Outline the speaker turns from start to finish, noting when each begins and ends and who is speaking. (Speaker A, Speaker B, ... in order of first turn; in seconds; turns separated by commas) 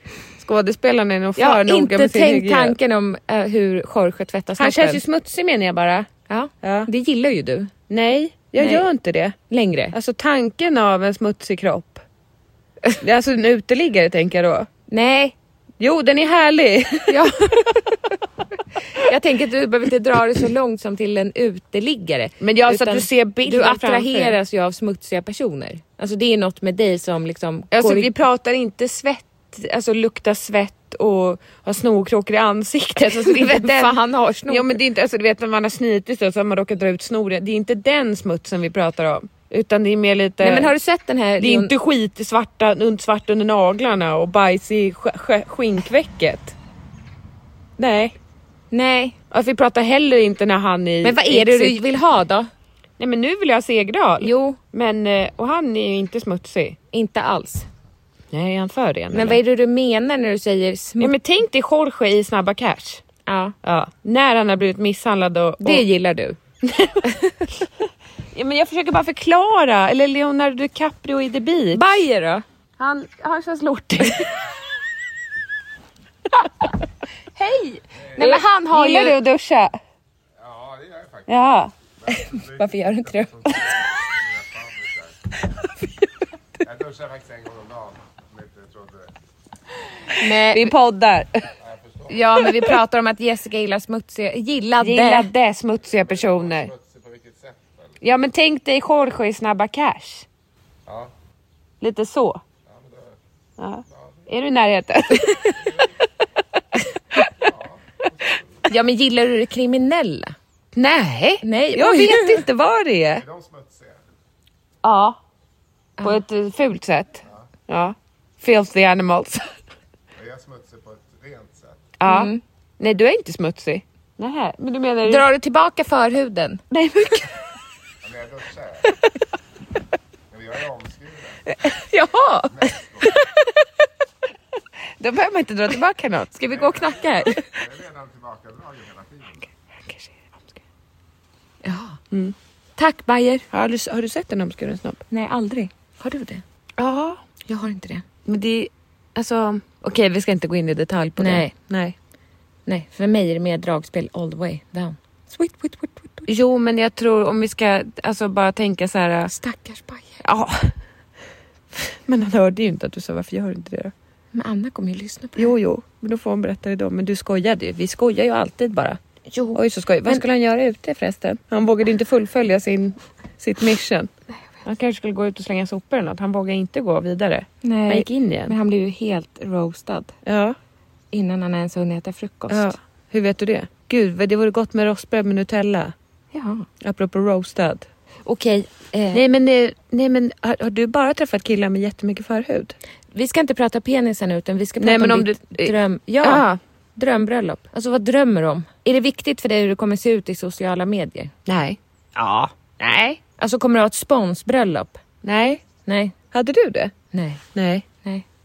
Speaker A: 0.4-2.8, Speaker B: 1.4-5.0, Speaker A: 4.6-6.1, Speaker B: 6.3-7.7, Speaker A: 6.6-6.9, Speaker A: 7.9-9.4, Speaker B: 8.6-8.9, Speaker B: 9.5-9.9, Speaker A: 9.9-12.0, Speaker A: 13.0-14.7, Speaker B: 14.9-15.3, Speaker A: 15.8-17.7, Speaker B: 17.1-17.8, Speaker B: 18.9-28.1, Speaker A: 22.4-24.4, Speaker A: 27.7-34.0, Speaker B: 33.0-34.7, Speaker A: 34.5-40.7, Speaker B: 40.4-41.7, Speaker A: 41.4-46.5, Speaker A: 47.8-48.2, Speaker B: 48.7-49.2, Speaker A: 49.3-51.8, Speaker B: 51.0-52.5, Speaker A: 53.0-56.8, Speaker B: 54.2-54.6, Speaker B: 56.9-57.7, Speaker A: 58.3-59.4, Speaker B: 59.1-61.1, Speaker A: 61.0-63.0, Speaker B: 63.3-63.5, Speaker A: 63.6-65.9, Speaker B: 65.6-66.4, Speaker A: 66.6-67.1, Speaker A: 68.3-71.9, Speaker B: 71.7-72.4, Speaker A: 72.8-74.3, Speaker A: 77.4-79.8, Speaker C: 78.0-78.3, Speaker B: 78.2-79.2, Speaker C: 80.4-81.4, Speaker A: 81.3-81.7, Speaker C: 82.0-85.3, Speaker B: 82.1-83.6, Speaker C: 86.6-89.1, Speaker B: 90.2-90.7, Speaker A: 90.5-91.5, Speaker C: 91.6-92.3, Speaker B: 92.1-95.3, Speaker A: 92.4-92.8, Speaker A: 94.8-96.7, Speaker C: 95.8-98.0, Speaker A: 98.0-100.3, Speaker C: 100.9-101.1, Speaker A: 101.8-102.4, Speaker C: 102.7-103.2, Speaker A: 103.6-105.5, Speaker C: 103.9-104.3, Speaker C: 105.6-106.0, Speaker C: 107.3-108.7, Speaker B: 108.7-110.3, Speaker A: 110.8-113.2, Speaker B: 111.4-112.4, Speaker C: 113.2-114.1, Speaker A: 114.8-115.2, Speaker A: 116.0-119.5, Speaker C: 120.2-121.9, Speaker A: 122.0-125.3, Speaker B: 122.0-122.4, Speaker B: 125.0-126.6, Speaker A: 126.7-127.3, Speaker C: 128.0-128.9, Speaker C: 130.3-131.4, Speaker B: 131.7-133.6, Speaker C: 132.5-133.1, Speaker A: 135.0-136.4, Speaker B: 136.4-137.5, Speaker C: 136.5-139.5, Speaker A: 139.9-140.6, Speaker B: 141.6-142.0, Speaker B: 142.8-143.4, Speaker A: 143.5-145.0, Speaker B: 145.1-146.4, Speaker A: 146.8-147.2, Speaker B: 147.5-148.0, Speaker A: 148.3-151.9, Speaker B: 151.2-151.5, Speaker B: 152.7-156.3, Speaker A: 156.3-159.3, Speaker B: 159.3-160.1, Speaker A: 160.2-160.8, Speaker A: 161.7-163.9, Speaker B: 164.3-165.5, Speaker A: 165.4-169.0, Speaker B: 169.3-170.2, Speaker A: 169.5-174.1, Speaker A: 174.6-178.6, Speaker B: 177.6-180.1, Speaker A: 180.3-180.6, Speaker B: 181.1-182.7, Speaker A: 182.5-185.9, Speaker B: 186.3-186.7, Speaker A: 186.8-187.9, Speaker B: 188.2-189.2, Speaker A: 189.1-192.8, Speaker B: 193.1-196.4, Speaker A: 194.8-196.6, Speaker B: 197.0-201.3, Speaker A: 201.5-203.2, Speaker B: 203.2-205.0, Speaker A: 205.2-205.6, Speaker B: 205.9-206.2, Speaker A: 206.3-206.9, Speaker B: 207.1-207.4, Speaker A: 207.6-207.9